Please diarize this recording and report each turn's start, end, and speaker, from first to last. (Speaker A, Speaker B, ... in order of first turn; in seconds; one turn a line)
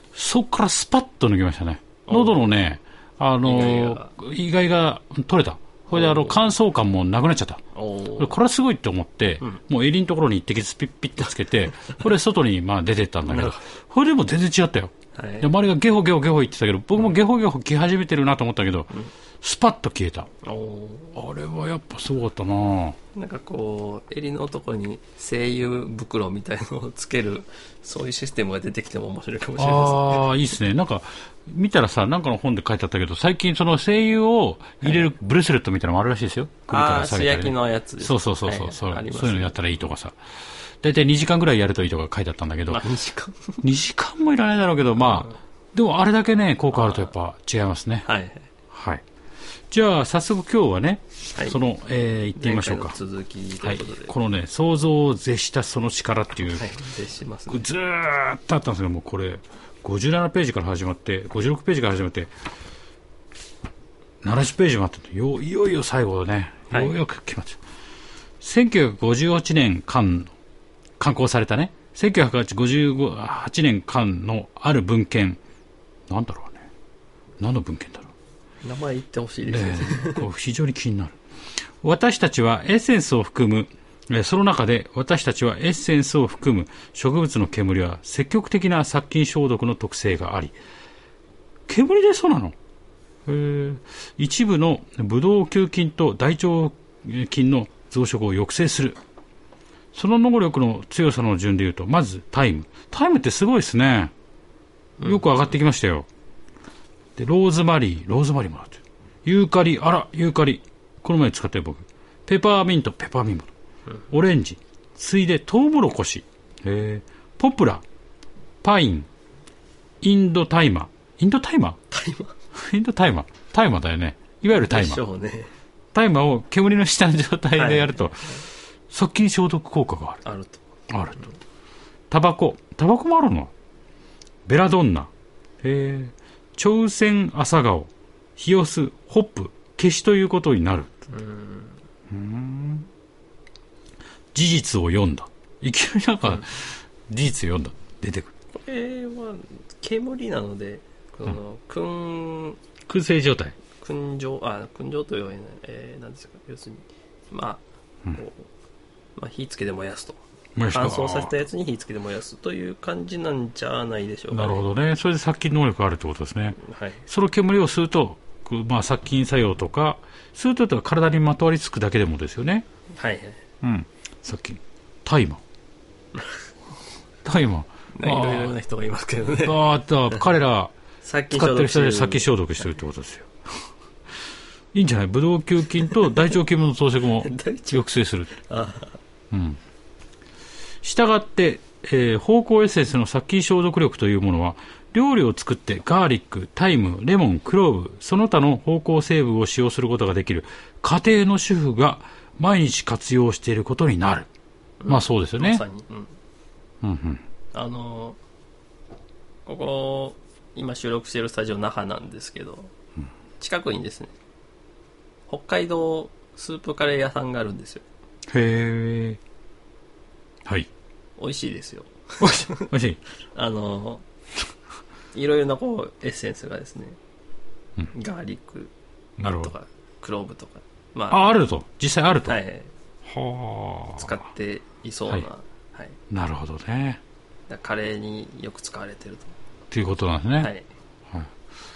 Speaker A: 0.1-7.6
Speaker B: 2.1-2.5
Speaker B: 3.4-4.1
Speaker B: 5.9-6.5
Speaker B: 7.8-8.3
Speaker A: 8.2-20.3
Speaker B: 13.3-13.6
Speaker B: 15.2-15.5
Speaker B: 20.4-21.2
Speaker A: 21.2-23.0
Speaker B: 23.1-30.3
Speaker A: 29.6-40.2
Speaker B: 34.8-35.1
Speaker B: 36.7-39.9
Speaker A: 40.8-42.8
Speaker B: 42.7-43.6
Speaker A: 43.6-48.1
Speaker B: 45.0-45.3
Speaker B: 46.7-47.1
Speaker B: 48.1-48.5
Speaker A: 48.7-49.0
Speaker A: 49.7-53.0
Speaker B: 52.4-54.1
Speaker A: 53.6-56.8
Speaker B: 56.5-57.7
Speaker A: 57.5-62.3
Speaker A: 64.2-67.6
Speaker B: 66.7-67.0
Speaker A: 68.4-70.3
Speaker A: 71.0-75.4
Speaker A: 76.1-76.7
Speaker A: 77.4-78.1
Speaker B: 78.6-80.2
Speaker A: 79.5-81.2
Speaker A: 81.8-90.5
Speaker A: 91.7-92.5
Speaker A: 93.2-99.0
Speaker A: 99.9-104.1
Speaker B: 105.0-105.3
Speaker A: 105.0-106.1
Speaker A: 107.2-113.5
Speaker A: 114.1-117.8
Speaker A: 118.6-119.1
Speaker A: 120.0-121.8
Speaker B: 121.9-122.3
Speaker A: 122.5-125.0
Speaker B: 124.5-125.5
Speaker A: 125.9-130.2
Speaker B: 127.5-128.4
Speaker B: 130.2-130.7
Speaker A: 130.9-131.3
Speaker A: 132.1-133.5
Speaker A: 134.5-135.1
Speaker A: 135.6-140.9
Speaker B: 141.1-141.8
Speaker A: 142.1-142.9
Speaker A: 144.3-148.3
Speaker B: 148.5-152.6
Speaker A: 152.9-153.6
Speaker B: 153.8-157.6
Speaker B: 158.1-158.5
Speaker B: 159.2-164.7
Speaker A: 160.6-161.3
Speaker A: 164.3-172.7
Speaker B: 166.6-167.0
Speaker B: 173.0-173.4
Speaker A: 173.6-175.4
Speaker A: 177.2-178.5
Speaker B: 177.9-179.6
Speaker A: 179.3-180.7
Speaker B: 181.0-182.3
Speaker A: 181.3-183.3
Speaker A: 184.7-188.3
Speaker B: 185.8-186.1
Speaker B: 187.2-189.0
Speaker A: 189.3-189.6
Speaker A: 190.8-204.3
Speaker B: 204.8-206.1
Speaker A: 204.9-205.6
Speaker A: 206.8-207.2
Speaker B: 207.5-208.2
Speaker B: 209.4-212.7
Speaker B: 213.4-214.1
Speaker B: 215.3-217.8
Speaker A: 218.3-219.2
Speaker B: 221.2-222.7
Speaker A: 222.2-223.0
Speaker B: 223.3-224.0
Speaker B: 225.1-227.0
Speaker B: 227.9-228.7
Speaker A: 229.2-229.5
Speaker B: 229.4-231.3
Speaker A: 231.1-232.4
Speaker B: 232.2-232.7
Speaker A: 233.1-234.2
Speaker B: 234.0-236.0
Speaker A: 236.1-237.0
Speaker B: 237.5-239.3
Speaker A: 239.7-240.5
Speaker B: 240.4-240.7